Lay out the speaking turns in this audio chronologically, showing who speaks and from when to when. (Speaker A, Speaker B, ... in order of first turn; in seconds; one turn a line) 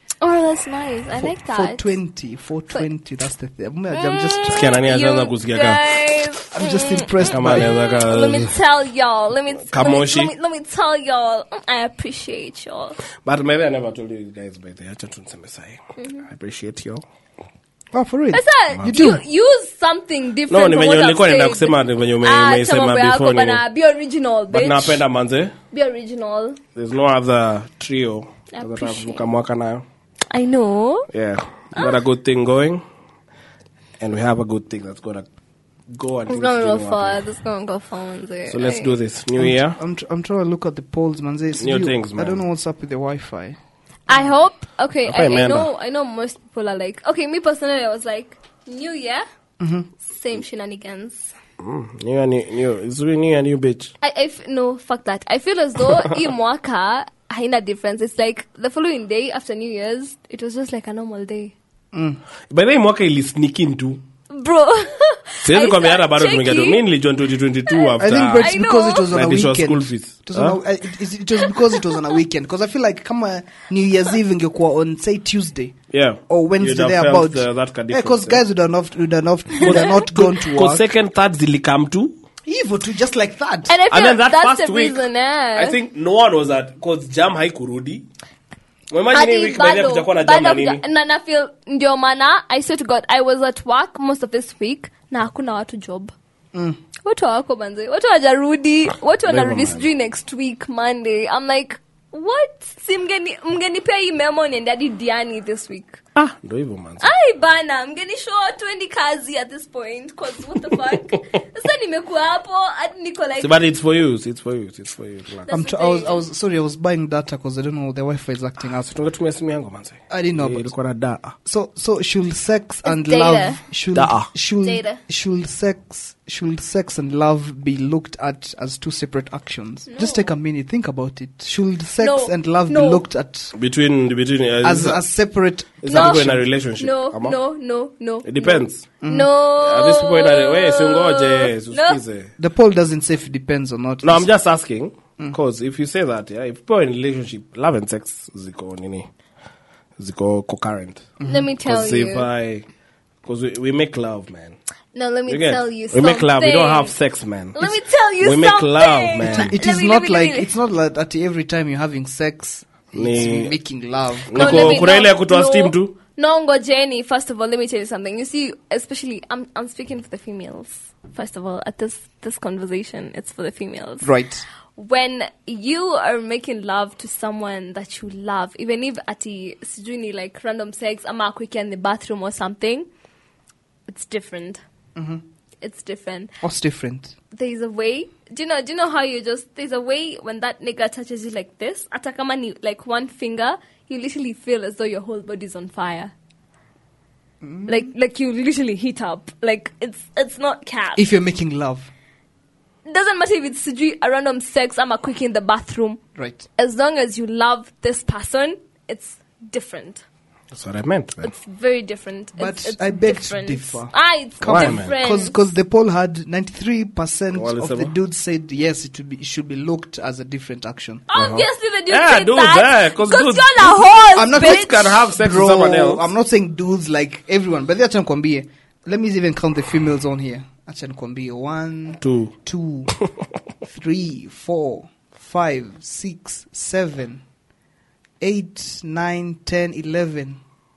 Speaker A: 0.2-1.9
Speaker B: 1.2-4.7
Speaker A: 3.9-13.0
Speaker C: 4.5-5.8
Speaker B: 6.5-7.7
Speaker C: 7.2-8.5
Speaker C: 9.7-10.3
Speaker C: 13.2-17.0
Speaker A: 16.0-16.2
Speaker B: 17.9-19.2
Speaker A: 18.3-25.0
Speaker C: 20.5-23.6
Speaker C: 24.5-25.5
Speaker A: 25.7-26.6
Speaker C: 26.7-29.8
Speaker A: 28.5-29.2
Speaker A: 30.3-31.1
Speaker C: 31.1-32.8
Speaker C: 34.0-35.3
Speaker C: 35.9-37.2
Speaker A: 36.3-38.9
Speaker C: 38.5-39.8
Speaker B: 39.4-43.6
Speaker C: 41.6-42.4
Speaker A: 44.1-49.2
Speaker C: 45.0-45.7
Speaker B: 49.6-49.9
Speaker A: 50.0-51.3
Speaker C: 51.6-53.9
Speaker A: 54.0-61.5
Speaker B: 61.9-62.2
Speaker C: 62.5-64.0
Speaker A: 64.3-66.8
Speaker C: 65.4-68.6
Speaker A: 67.7-69.1
Speaker B: 68.0-75.8
Speaker C: 69.1-70.6
Speaker C: 75.9-78.4
Speaker B: 76.3-80.8
Speaker C: 79.6-82.2
Speaker B: 82.5-83.8
Speaker A: 83.7-85.8
Speaker C: 83.9-85.0
Speaker C: 85.5-88.0
Speaker C: 88.9-90.8
Speaker A: 89.1-96.1
Speaker A: 97.0-106.0
Speaker C: 99.2-99.8
Speaker C: 106.2-107.1
Speaker A: 107.0-113.6
Speaker C: 113.4-115.5
Speaker A: 115.5-116.2
Speaker B: 115.5-118.8
Speaker C: 118.7-121.3
Speaker B: 120.1-120.7
Speaker B: 121.4-133.5
Speaker A: 122.8-123.6
Speaker C: 123.9-124.3
Speaker A: 124.6-125.0
Speaker A: 129.9-130.3
Speaker A: 132.0-133.0
Speaker C: 133.5-135.0
Speaker B: 134.6-136.4
Speaker C: 135.8-137.4
Speaker A: 135.9-142.0
Speaker C: 138.2-138.8
Speaker B: 139.0-139.3
Speaker C: 139.6-142.3
Speaker B: 142.4-144.3
Speaker C: 144.0-149.1
Speaker C: 150.0-151.1
Speaker B: 151.2-151.5
Speaker A: 151.2-152.3
Speaker C: 151.6-152.7
Speaker C: 153.2-154.6
Speaker A: 154.9-156.9
Speaker C: 155.3-159.6
Speaker A: 157.5-160.5
Speaker B: 159.2-164.9
Speaker C: 162.9-163.5
Speaker C: 164.3-165.9
Speaker A: 164.3-174.1
Speaker B: 174.0-174.4
Speaker A: 174.8-182.9
Speaker A: 183.9-184.6
Speaker B: 184.9-185.2
Speaker A: 185.6-186.3
Speaker B: 186.4-187.1
Speaker A: 187.3-196.1
Speaker B: 197.4-197.8
Speaker A: 197.7-201.0
Speaker B: 200.9-201.9
Speaker A: 202.8-206.0
Speaker B: 206.2-206.4
Speaker A: 206.6-210.0
Speaker C: 210.5-211.3
Speaker A: 211.2-215.4
Speaker B: 212.4-221.1
Speaker C: 214.4-214.9
Speaker C: 217.3-217.9
Speaker A: 221.1-225.0
Speaker C: 221.1-226.1
Speaker B: 224.1-232.9
Speaker C: 232.0-232.3
Speaker B: 233.6-237.2
Speaker B: 238.2-240.4